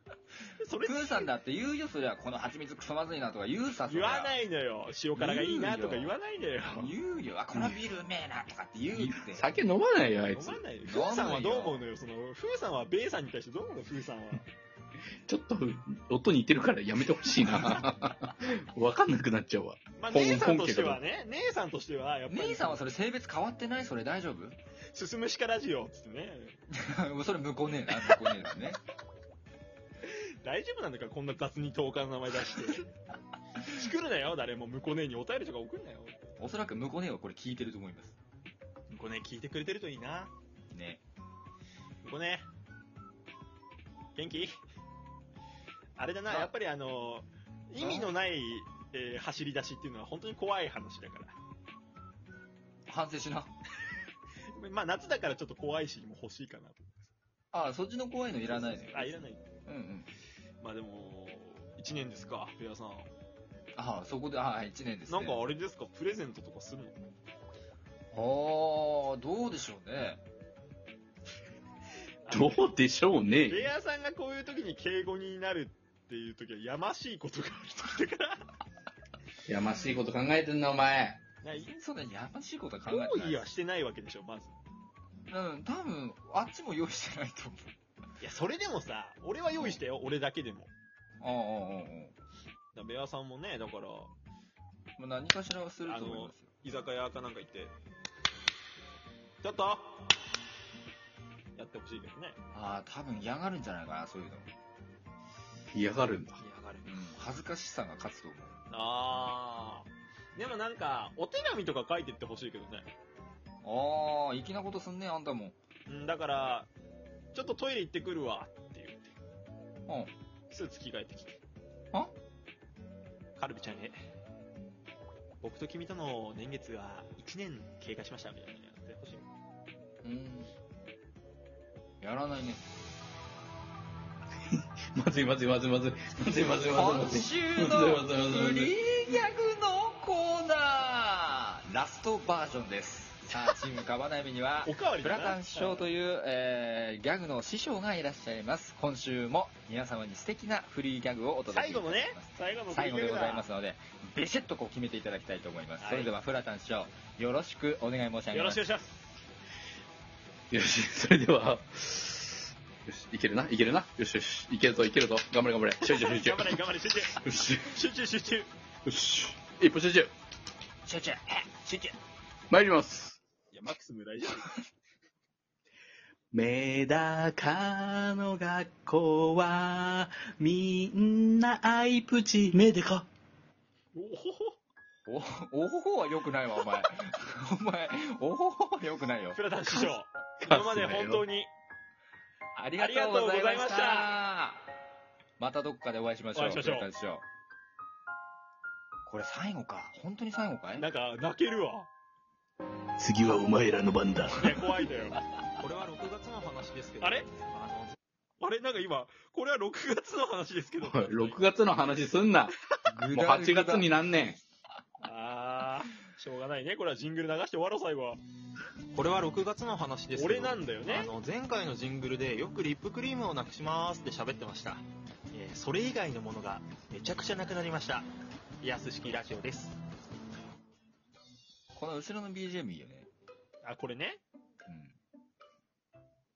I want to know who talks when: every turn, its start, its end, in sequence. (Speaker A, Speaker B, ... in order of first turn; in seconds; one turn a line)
Speaker A: 0.6-1.3
Speaker B: 0.8-4.3
Speaker A: 3.9-7.0
Speaker B: 5.1-6.1
Speaker B: 6.7-9.5
Speaker C: 8.9-10.6
Speaker A: 10.3-14.5
Speaker B: 10.9-11.8
Speaker C: 15.3-21.0
Speaker A: 20.0-22.8
Speaker B: 22.3-24.5
Speaker A: 24.9-26.6
Speaker B: 26.7-28.8
Speaker A: 30.0-32.9
Speaker A: 33.6-36.2
Speaker B: 36.4-38.1
Speaker A: 38.9-40.3
Speaker B: 40.7-41.0
Speaker A: 42.0-42.5
Speaker A: 44.1-44.6
Speaker A: 46.0-51.3
Speaker B: 47.8-48.1
Speaker B: 52.9-53.5
Speaker A: 54.5-57.1
Speaker B: 57.5-60.1
Speaker A: 58.5-59.4
Speaker A: 60.6-63.1
Speaker B: 63.8-65.4
Speaker A: 65.1-67.0
Speaker B: 68.1-70.2
Speaker A: 72.2-72.7
Speaker C: 72.3-73.6
Speaker A: 73.5-78.5
Speaker C: 79.5-81.2
Speaker A: 81.4-81.7
Speaker B: 81.5-83.5
Speaker A: 82.8-84.5
Speaker B: 85.3-87.7
Speaker A: 88.2-90.7
Speaker B: 89.5-89.8
Speaker B: 91.2-92.1
Speaker A: 92.7-94.1
Speaker B: 95.0-96.5
Speaker A: 95.8-97.7
Speaker A: 99.4-100.1
Speaker A: 101.5-102.3
Speaker B: 102.5-104.5
Speaker C: 105.7-106.4
Speaker A: 106.4-106.9
Speaker B: 106.8-108.6
Speaker A: 108.7-112.9
Speaker B: 113.6-115.6
Speaker A: 115.9-116.7
Speaker A: 117.3-119.2
Speaker B: 119.9-120.1
Speaker A: 120.5-121.4
Speaker A: 123.4-124.0
Speaker A: 125.4-129.3
Speaker B: 130.0-130.5
Speaker B: 132.0-132.6
Speaker C: 134.9-138.7
Speaker B: 136.7-158.6
Speaker A: 144.6-145.9
Speaker A: 151.5-153.5
Speaker A: 155.8-156.1
Speaker A: 158.3-159.0
Speaker C: 160.5-166.6
Speaker A: 165.8-168.5
Speaker C: 167.2-167.7
Speaker C: 168.8-170.1
Speaker B: 170.8-171.9
Speaker C: 172.5-173.2
Speaker A: 173.5-174.6
Speaker C: 176.3-183.0
Speaker A: 183.9-184.6
Speaker B: 185.1-189.4
Speaker A: 189.3-191.5
Speaker C: 190.4-191.2
Speaker B: 192.5-194.6
Speaker A: 192.8-194.1
Speaker B: 195.4-197.2
Speaker A: 196.3-196.9
Speaker B: 199.1-200.9
Speaker A: 200.8-201.9
Speaker C: 203.0-204.8
Speaker A: 204.3-205.2
Speaker D: 205.6-207.9
Speaker A: 207.0-207.3
Speaker A: 208.4-211.5
Speaker C: 210.8-212.5
Speaker B: 212.9-213.9
Speaker C: 213.1-214.4
Speaker A: 215.0-218.2
Speaker D: 218.9-228.0
Speaker A: 220.2-221.1
Speaker D: 228.6-229.7
Speaker B: 231.7-233.1
Speaker A: 233.6-234.2
Speaker B: 234.7-234.9